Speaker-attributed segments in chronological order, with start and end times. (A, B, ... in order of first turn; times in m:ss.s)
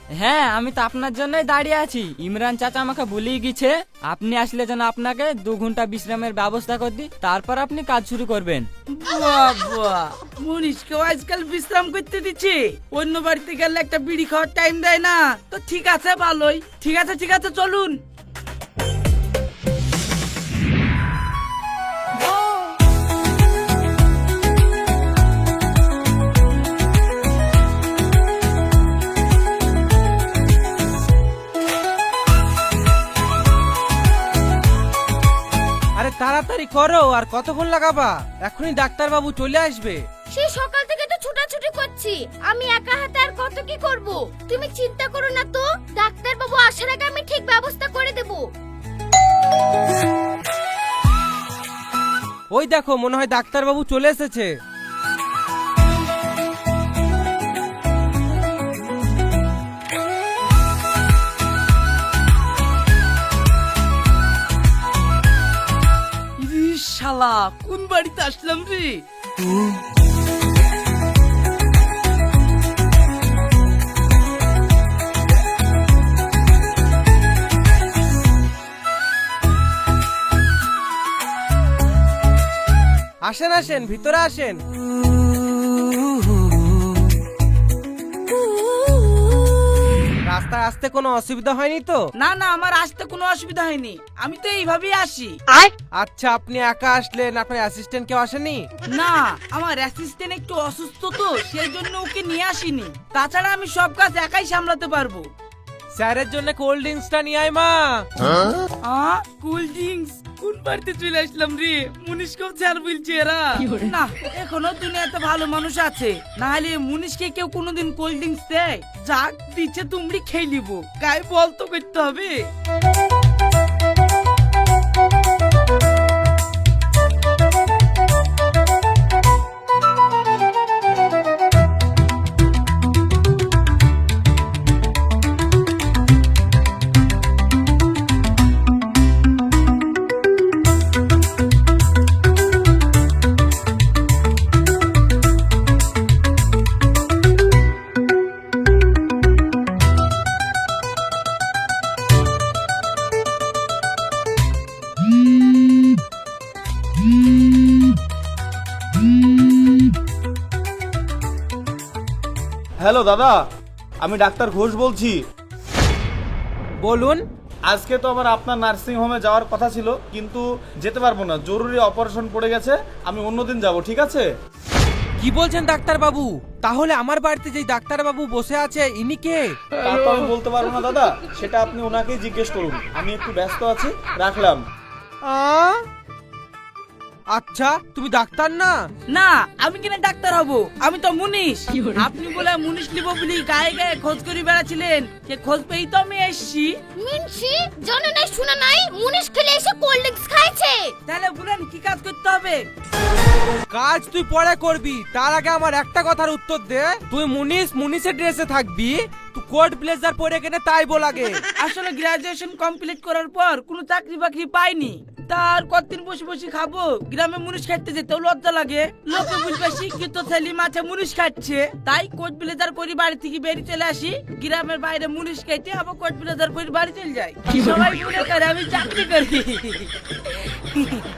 0:00.2-0:08.7 A
0:08.9-0:18.0 B
0:36.0-0:40.0 C
0:40.4-0:48.5 D
0:52.5-0:54.5 C
1:06.4-1:09.0 B
1:23.3-1:24.6 C
1:30.3-1:32.0 C
1:32.2-1:35.4 B
1:36.0-1:38.7 C
1:38.9-1:45.3 B
1:46.0-1:48.0 C
1:48.8-2:02.5 B
2:42.8-2:43.4 E
2:44.0-2:45.2 E
2:46.8-2:47.2 C
2:47.7-2:54.3 E
2:55.2-2:59.6 C
2:59.8-3:04.6 E
3:05.3-3:05.8 C
3:07.3-3:08.8 C
3:09.1-3:16.8 B
3:17.0-3:20.9 D
3:21.1-3:22.6 B
3:23.7-3:31.4 C
3:31.6-3:49.9 B
3:50.7-3:51.0 B